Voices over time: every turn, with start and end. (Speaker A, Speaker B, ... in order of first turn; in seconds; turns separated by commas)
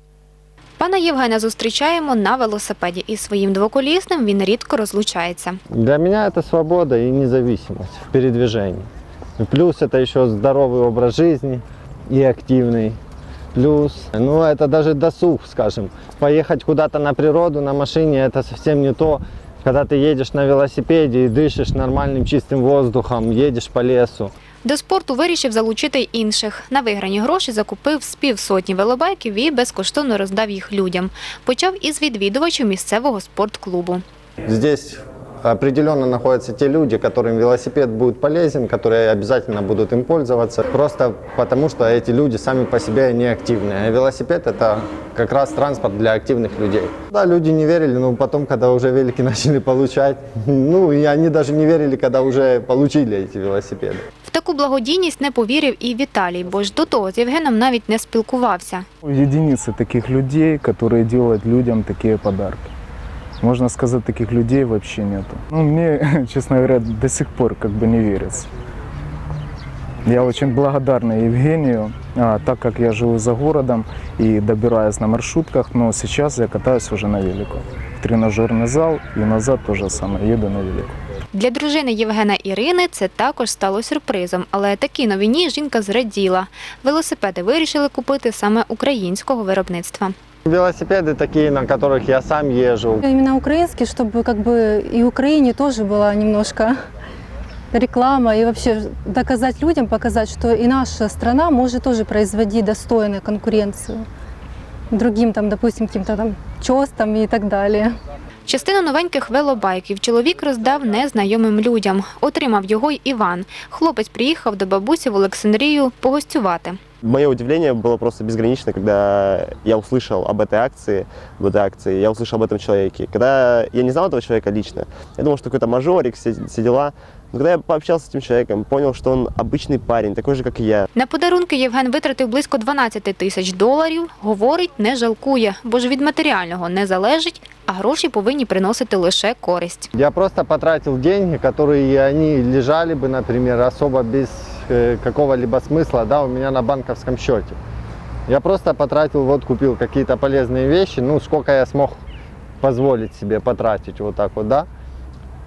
Speaker A: 0.8-5.6, Speaker B: 5.7-8.9, Speaker B: 9.4-13.0, Speaker B: 13.6-24.3, Speaker A: 24.6-34.0, Speaker B: 34.5-54.0, Speaker A: 54.3-58.9, Speaker C: 59.0-62.7, Speaker C: 63.4-68.5, Speaker C: 70.0-81.0, Speaker A: 81.3-90.1, Speaker B: 90.5-93.1, Speaker D: 93.0-96.8, Speaker D: 97.7-104.0, Speaker D: 104.9-107.9, Speaker A: 108.5-116.8, Speaker E: 117.0-130.9, Speaker A: 130.9-139.9, Speaker B: 139.9-147.6, Speaker B: 148.3-152.0, Speaker B: 152.6-154.7